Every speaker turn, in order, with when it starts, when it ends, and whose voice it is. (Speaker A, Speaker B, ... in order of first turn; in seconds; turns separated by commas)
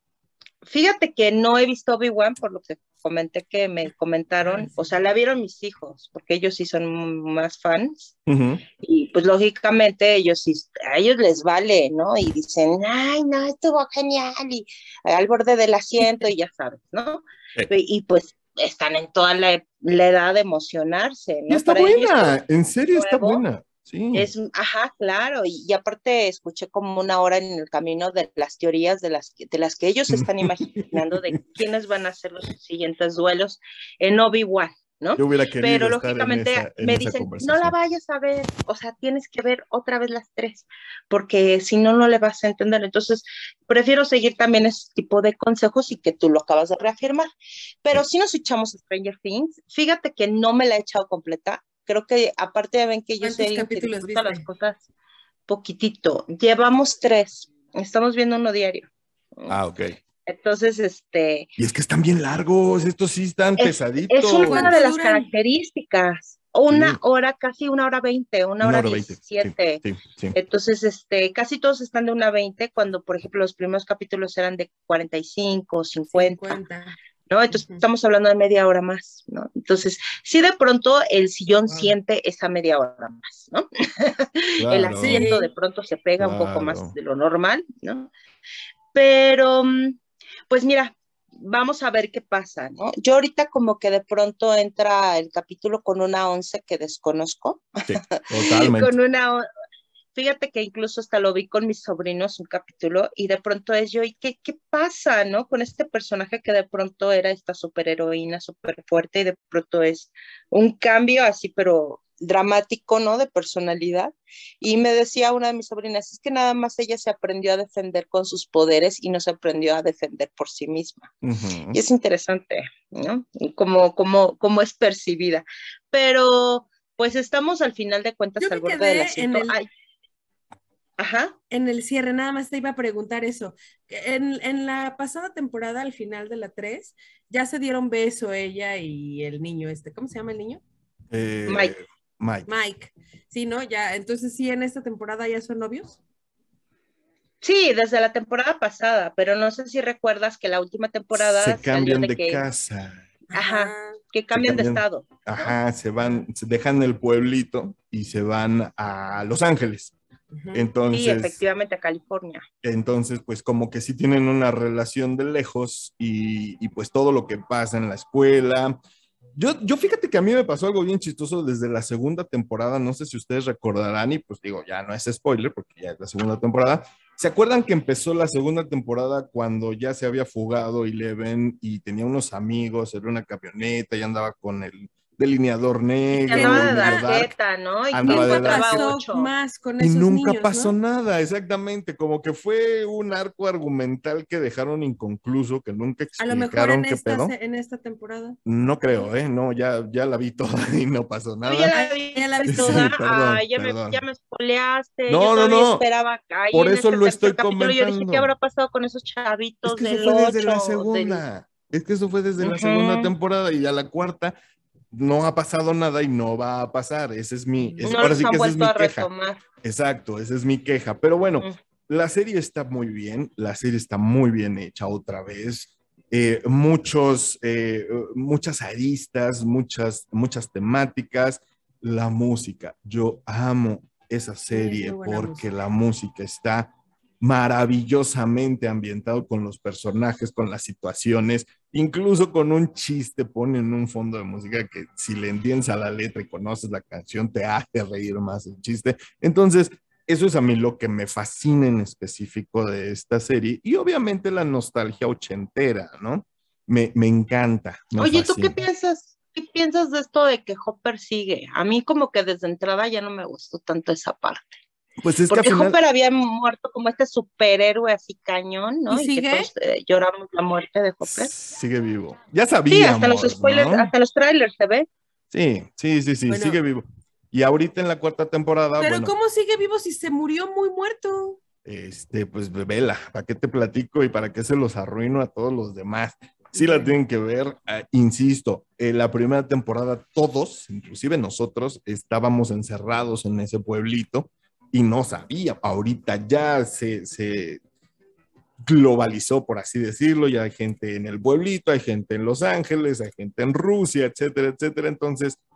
Speaker A: 0.7-8.2, Speaker B: 4.4-4.7, Speaker C: 8.3-8.6, Speaker A: 8.8-22.4, Speaker C: 21.5-24.3, Speaker A: 22.9-23.4, Speaker A: 24.1-47.3, Speaker C: 30.1-31.2, Speaker C: 35.2-37.7, Speaker A: 47.8-54.8, Speaker B: 53.2-54.5, Speaker A: 55.5-59.6, Speaker C: 59.5-60.0, Speaker A: 60.3-61.5, Speaker C: 61.6-64.8, Speaker A: 63.6-69.8, Speaker B: 64.3-65.3, Speaker C: 66.7-67.0, Speaker C: 68.6-70.4, Speaker A: 70.3-76.6, Speaker B: 76.1-77.0, Speaker A: 77.3-88.1, Speaker B: 77.5-77.8, Speaker B: 81.7-82.0, Speaker C: 84.6-85.3, Speaker B: 85.0-85.5, Speaker C: 86.2-86.9, Speaker A: 88.9-99.5, Speaker C: 97.9-99.0, Speaker A: 100.2-121.2, Speaker C: 121.2-121.8, Speaker A: 121.7-129.7, Speaker B: 128.4-129.6, Speaker A: 131.0-131.3, Speaker B: 131.5-140.6, Speaker C: 141.1-142.5, Speaker A: 141.5-141.8, Speaker B: 142.5-146.0, Speaker A: 147.4-152.4, Speaker C: 151.1-153.0, Speaker B: 153.3-154.0, Speaker A: 153.3-155.6, Speaker C: 154.3-159.9, Speaker B: 160.3-160.7, Speaker C: 160.5-161.4, Speaker A: 160.9-162.4, Speaker C: 162.6-168.8, Speaker C: 169.4-187.3, Speaker B: 186.1-187.1, Speaker A: 186.3-189.3, Speaker C: 187.9-188.8, Speaker B: 188.1-190.8, Speaker C: 189.8-197.3, Speaker B: 196.2-198.4, Speaker C: 198.5-201.7, Speaker A: 201.4-211.2, Speaker B: 201.7-202.9, Speaker C: 202.5-204.0, Speaker C: 205.1-205.8, Speaker C: 206.5-208.3, Speaker C: 209.7-214.4, Speaker A: 212.4-213.1, Speaker C: 214.9-219.1, Speaker B: 217.6-218.3, Speaker A: 217.8-219.4, Speaker C: 219.6-258.6, Speaker B: 234.5-235.5, Speaker A: 258.0-264.6, Speaker C: 265.0-265.8, Speaker A: 265.3-271.3, Speaker B: 268.9-269.5, Speaker C: 271.0-273.9, Speaker A: 272.7-274.9, Speaker C: 275.3-279.1, Speaker B: 276.3-276.6, Speaker B: 278.8-281.4, Speaker C: 281.6-297.6, Speaker B: 286.6-287.0, Speaker C: 298.6-305.4